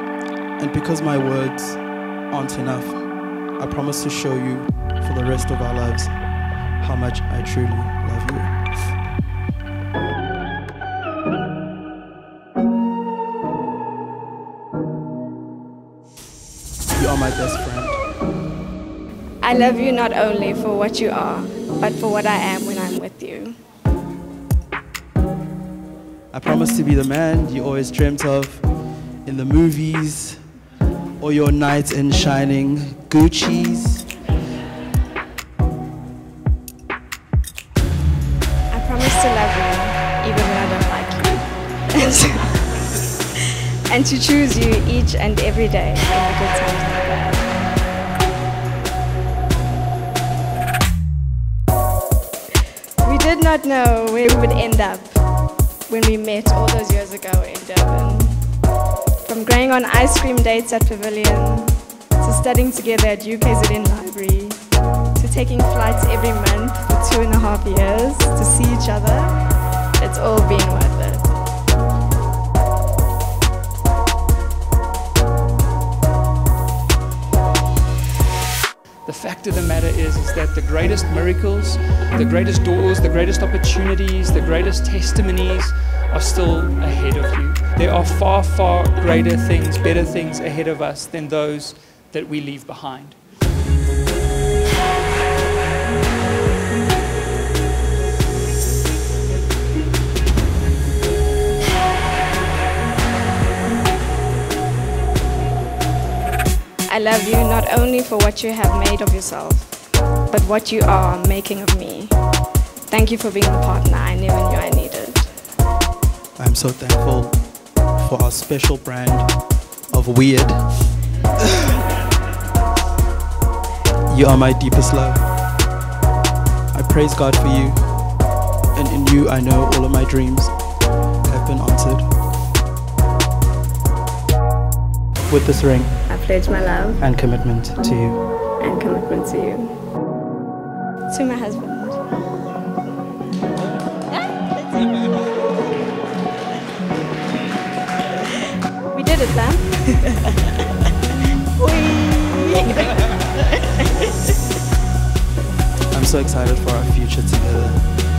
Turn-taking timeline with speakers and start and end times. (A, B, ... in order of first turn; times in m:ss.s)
0:00.6-0:03.0 A
0:03.6-0:06.1 A
0:06.8-0:08.5 A
0:16.9-0:18.0 A
0:19.4-0:23.6 B
0:26.3-0:28.7 A
0:29.2-0:30.4 A
0:31.2-0:34.1 A
0:38.7-0:42.6 B
0:43.4-0:47.5 B
0:53.0-0:55.2 B
0:55.9-0:58.4 B
0:59.2-1:04.6 B
1:05.1-1:09.3 B
1:10.0-1:11.3 B
1:19.0-1:33.2 C
1:46.9-1:49.8 B
1:50.3-1:52.1 B
1:52.9-1:55.3 B
1:56.4-1:57.4 A
1:58.0-1:59.3 A
1:59.9-2:00.7 A
2:01.4-2:01.7 A
2:04.1-2:05.2 A
2:06.7-2:07.8 A
2:08.7-2:10.5 A
2:11.2-2:12.1 A
2:15.3-2:16.0 A
2:16.1-2:17.0 B
2:17.0-2:18.2 A
2:18.6-2:19.7 B
2:21.1-2:22.0 B
2:24.1-2:25.3 B
2:28.9-2:30.5 B
2:31.4-2:33.0 B
2:35.9-2:37.9 A